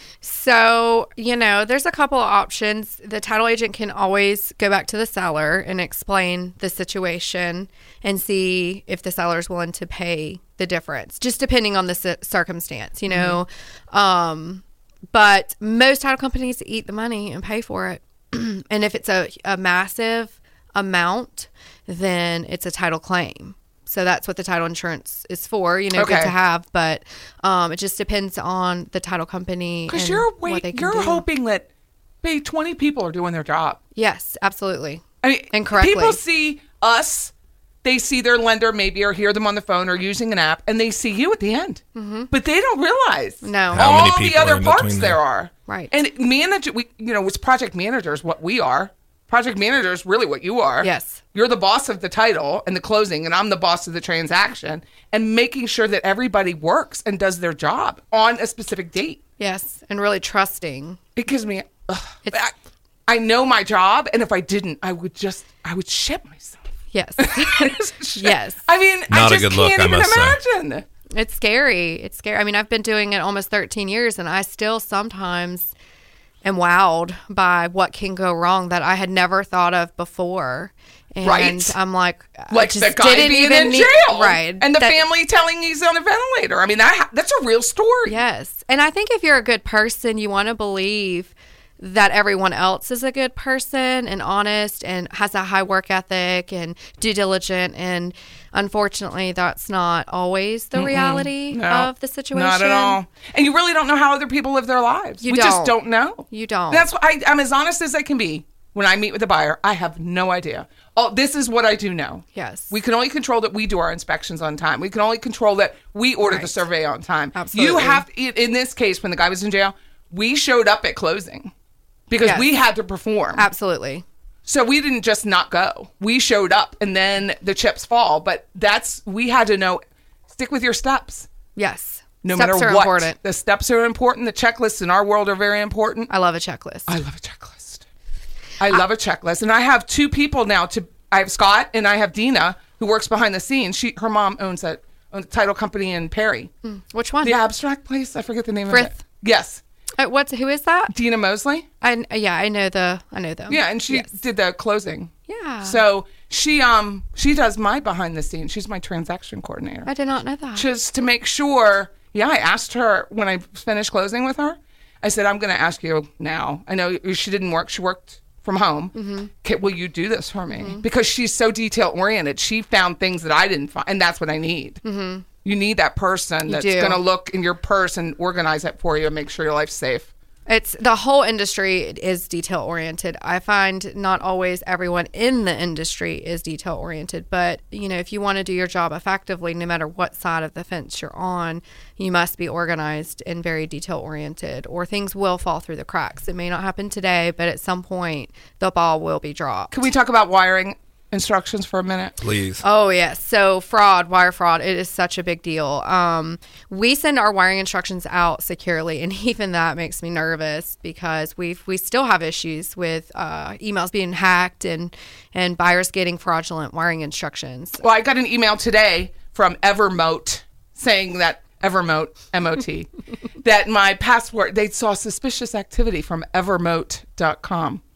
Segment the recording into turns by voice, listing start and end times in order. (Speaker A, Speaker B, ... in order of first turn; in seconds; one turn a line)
Speaker A: 0.2-31.2
Speaker B: 13.1-13.4
Speaker B: 25.9-26.3
Speaker B: 29.9-31.7
Speaker B: 32.2-33.8
Speaker A: 34.0-36.2
Speaker B: 35.2-37.3
Speaker B: 37.8-59.2
Speaker A: 42.0-42.3
Speaker A: 43.4-44.0
Speaker C: 43.7-45.2
Speaker A: 45.7-45.9
Speaker A: 50.8-51.2
Speaker A: 59.4-61.0
Speaker B: 61.2-62.5
Speaker B: 63.1-66.6
Speaker A: 66.9-68.6
Speaker B: 67.2-70.8
Speaker C: 69.1-70.4
Speaker A: 71.1-75.7
Speaker A: 76.4-85.0
Speaker B: 81.2-81.8
Speaker B: 82.5-88.2
Speaker A: 88.1-103.0
Speaker B: 100.8-121.5
Speaker A: 105.2-105.8
Speaker A: 106.3-106.9
Speaker A: 112.3-112.7
Speaker A: 116.2-116.7
Speaker A: 117.3-118.0
Speaker B: 122.1-123.5
Speaker A: 123.4-124.0
Speaker B: 124.5-131.3
Speaker A: 131.6-133.2
Speaker B: 132.2-136.1
Speaker A: 136.1-136.9
Speaker B: 136.9-137.8
Speaker B: 138.6-146.5
Speaker A: 146.6-147.4
Speaker B: 147.2-149.6
Speaker A: 148.7-149.0
Speaker A: 150.0-150.9
Speaker B: 150.9-151.7
Speaker A: 151.8-154.1
Speaker B: 153.5-159.9
Speaker A: 155.3-155.8
Speaker A: 159.9-160.7
Speaker B: 160.6-174.8
Speaker A: 168.9-169.3
Speaker A: 170.5-170.8
Speaker A: 174.8-175.2
Speaker B: 175.4-180.1
Speaker A: 176.5-177.0
Speaker A: 180.5-199.7
Speaker B: 199.7-202.2
Speaker C: 202.2-202.6
Speaker A: 202.6-217.8
Speaker B: 217.8-222.9
Speaker B: 223.4-227.8